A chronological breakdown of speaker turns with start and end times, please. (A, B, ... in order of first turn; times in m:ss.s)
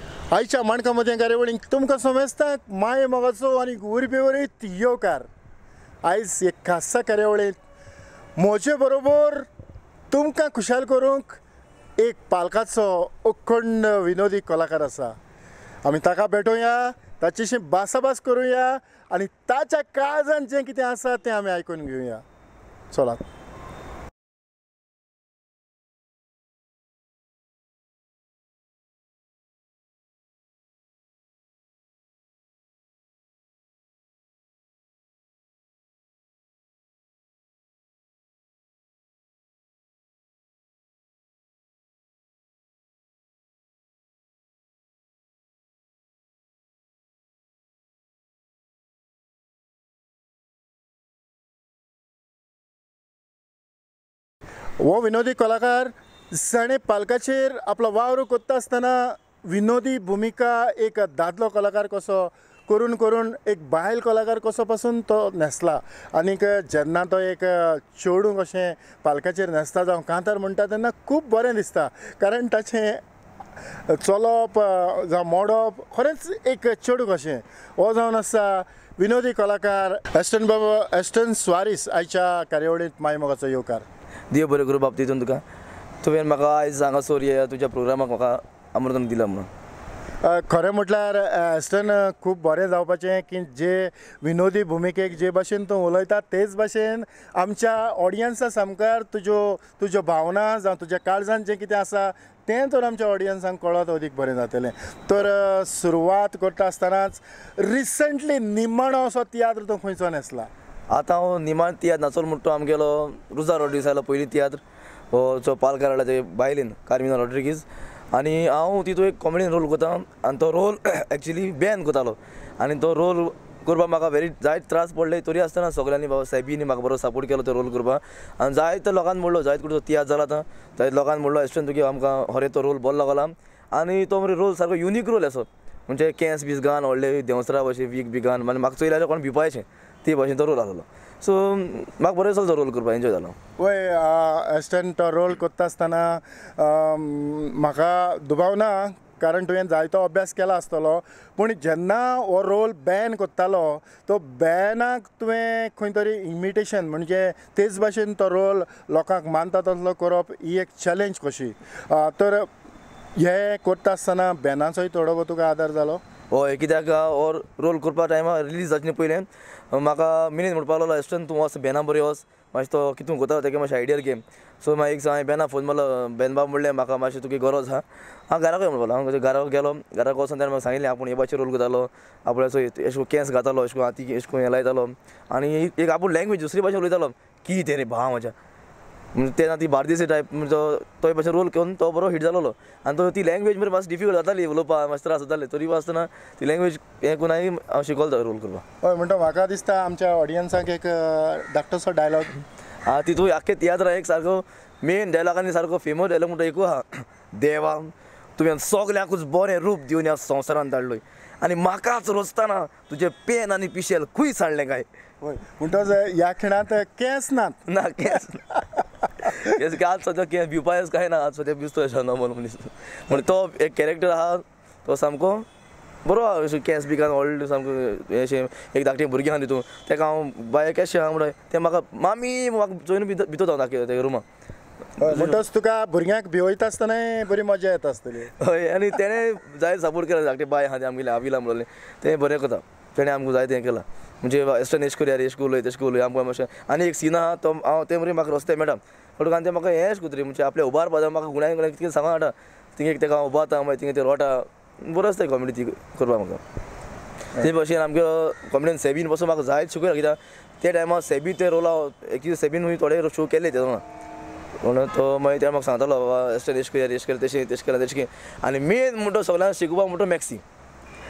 0:00.3-0:05.3 A
0:06.1-0:07.6 A
0:08.4-0:09.5 A
0:10.1-0:11.4 A
0:12.0-0:15.2 A
0:15.8-0:22.2 A
0:22.9-0:23.2 A
0:54.8-1:13.0 A
1:13.9-1:23.8 A
1:24.3-1:25.4 B
1:26.0-1:29.5 B
1:30.2-1:50.5 A
1:50.9-1:54.6 B
1:55.1-2:23.4 B
2:23.6-2:42.5 A
2:43.2-2:46.0 A
2:46.3-3:08.4 B
3:09.1-3:18.6 B
3:18.8-3:22.4 A
3:22.9-3:34.9 B
3:35.2-3:37.6 A
3:37.7-3:38.6 B
3:39.2-3:45.5 B
3:46.0-3:54.2 B
3:55.0-3:55.4 B
3:55.0-3:58.3 A
3:58.4-4:16.4 B
4:17.4-4:23.8 B
4:24.6-4:30.4 B